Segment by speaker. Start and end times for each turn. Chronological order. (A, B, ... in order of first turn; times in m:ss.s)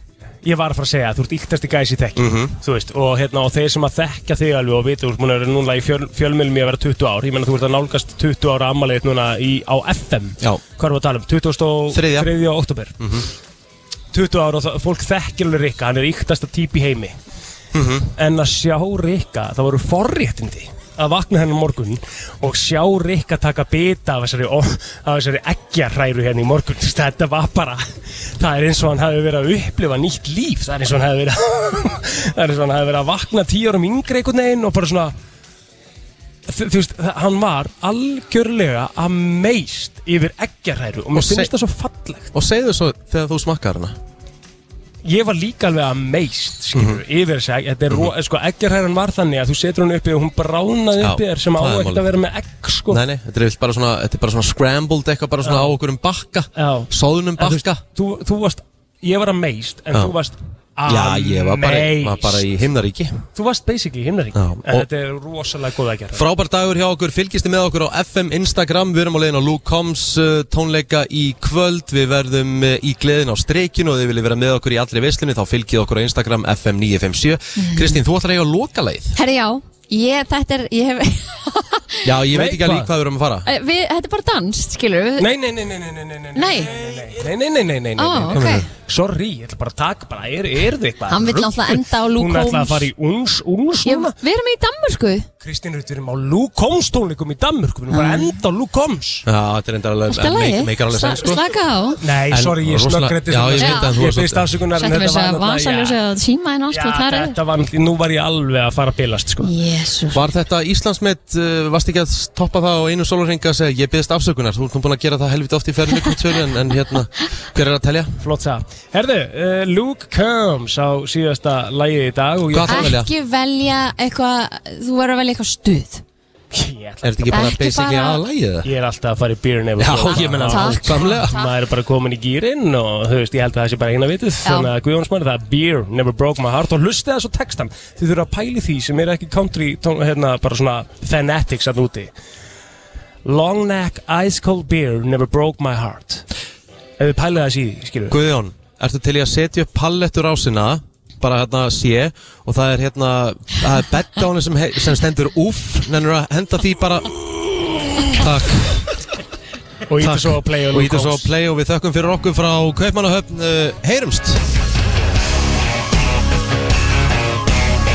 0:00.4-0:13.0 A
0:02.2-0:02.5 B
0:11.9-0:12.3 B
0:13.0-0:13.3 B
0:14.1-0:17.2 A
0:17.7-0:18.1 B
0:18.2-0:35.2 A
0:36.5-0:42.3 A
0:41.1-0:41.5 B
0:42.3-0:44.0 B
0:45.0-0:53.0 A
0:46.7-0:47.0 B
0:51.0-0:52.1 B
0:52.9-0:57.8 B
0:55.4-0:55.7 A
0:56.6-1:02.4 A
1:00.9-1:03.2 B
1:03.4-1:06.3 A
1:04.4-1:04.9 B
1:06.2-1:19.2 B
1:17.6-1:18.0 C
1:19.2-1:22.1 C
1:22.0-1:23.5 B
1:22.3-1:22.9 A
1:23.4-1:25.3 C
1:25.2-1:34.2 A
1:26.4-1:26.7 C
1:28.0-1:28.7 C
1:28.3-1:28.7 B
1:31.1-1:32.9 C
1:33.8-1:35.3 C
1:35.4-1:39.3 A
1:37.9-1:38.3 C
1:39.3-1:41.4 B
1:40.1-1:42.0 C
1:42.0-1:46.0 A
1:42.3-1:44.5 B
1:43.6-1:44.0 C
1:44.8-1:47.4 C
1:46.7-1:49.5 A
1:49.4-1:50.3 C
1:50.1-1:58.2 B
1:58.2-2:02.9 A
2:02.5-2:03.1 B
2:02.7-2:06.0 C
2:06.5-2:07.1 A
2:07.0-2:08.7 B
2:07.3-2:08.2 C
2:08.6-2:22.1 A
2:09.8-2:11.4 B
2:10.0-2:11.5 C
2:23.2-2:26.2 A
2:27.0-2:28.2 A
2:28.1-2:37.3 B
2:38.1-2:38.9 B
2:39.9-2:41.3 A
2:40.0-2:44.4 B